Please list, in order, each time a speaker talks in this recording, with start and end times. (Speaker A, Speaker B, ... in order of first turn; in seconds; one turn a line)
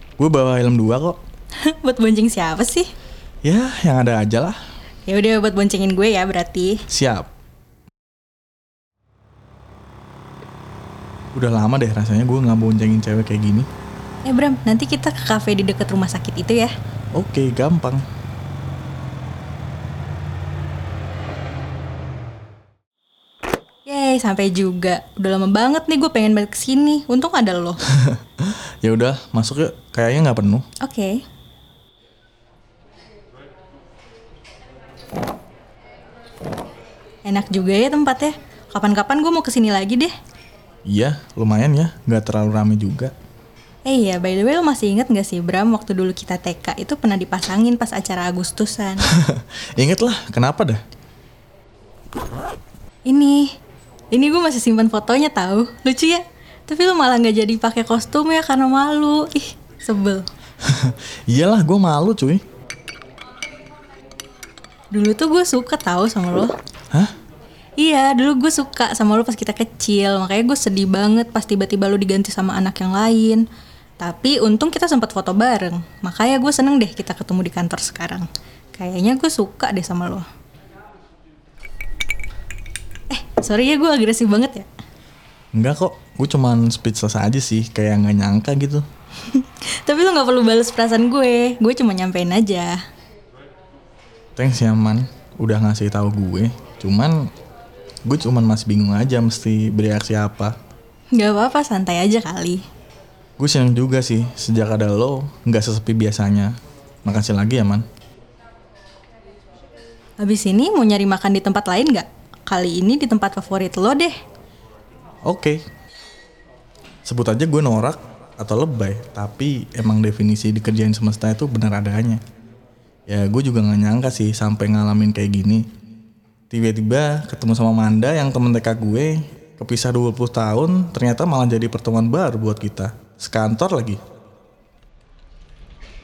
Speaker A: 0.2-1.2
Speaker B: 1.6-2.9
Speaker A: 3.5-4.6
Speaker B: 5.1-6.8
Speaker A: 6.9-7.3
Speaker A: 11.3-13.7
Speaker B: 14.3-16.7
Speaker A: 17.1-18.0
Speaker B: 23.9-27.8
Speaker A: 27.9-30.7
Speaker B: 30.8-31.2
Speaker B: 37.2-40.1
Speaker A: 40.9-43.1
Speaker B: 43.9-49.1
Speaker A: 49.1-50.8
Speaker B: 53.1-53.5
Speaker B: 54.1-60.2
Speaker A: 60.6-62.4
Speaker B: 64.9-66.5
Speaker B: 67.8-73.4
Speaker B: 74.0-80.2
Speaker B: 83.1-84.7
Speaker A: 85.5-88.8
Speaker B: 89.2-92.8
Speaker A: 94.4-97.3
Speaker A: 98.1-100.6
Speaker B: 101.1-102.6
Speaker A: 103.4-107.9
Speaker B: 110.2-114.1
Speaker A: 115.2-115.6
Speaker A: 117.0-122.2
Speaker A: 123.1-125.6
Speaker A: 126.5-134.0